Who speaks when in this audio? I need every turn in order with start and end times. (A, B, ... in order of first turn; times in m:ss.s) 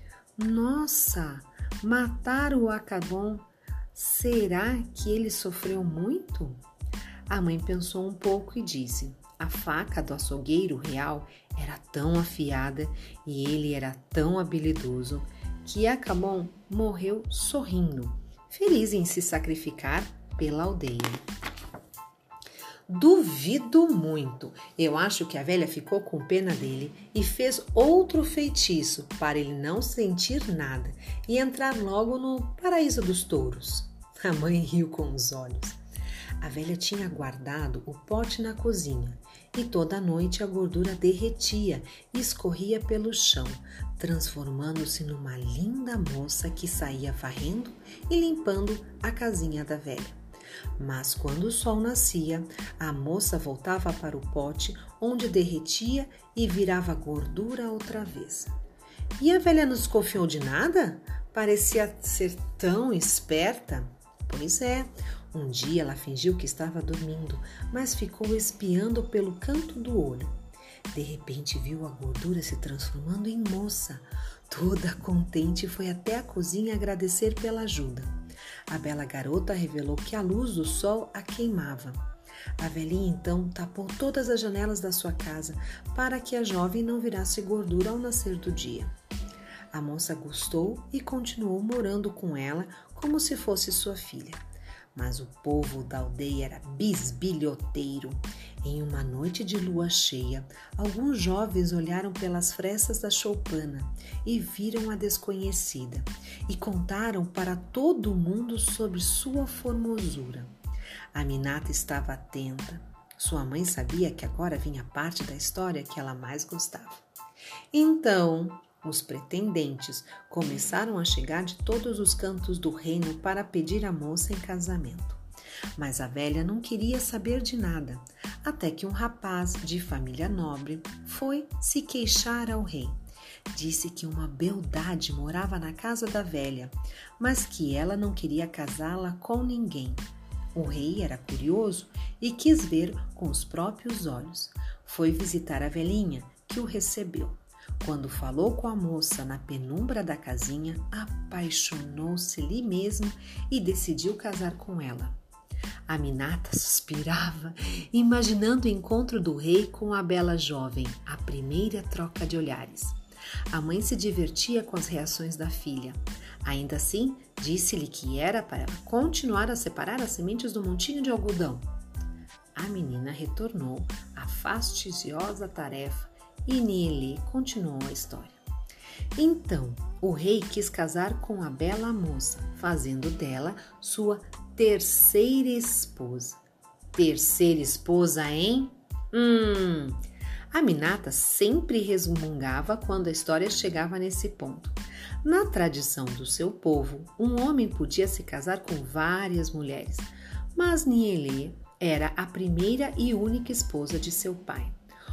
0:00.4-0:06.6 A
0:07.3-0:21.2 A
0:22.9-0:35.8 A
0:36.4-0:50.2 A
0:50.8-0:58.5 A
0:59.2-1:10.3 A
1:10.9-1:18.2 A
1:18.7-1:22.0 A
1:22.6-1:28.9 A
1:29.7-1:34.4 A
1:35.0-1:50.5 A
1:51.1-1:57.0 A
1:57.7-2:05.2 A
2:05.8-2:13.0 A
2:13.5-2:20.0 A
2:20.5-2:35.2 A
2:35.9-2:43.0 A
2:43.5-2:51.7 A
2:52.6-2:58.4 A
2:59.2-3:06.4 A
3:06.9-3:24.8 A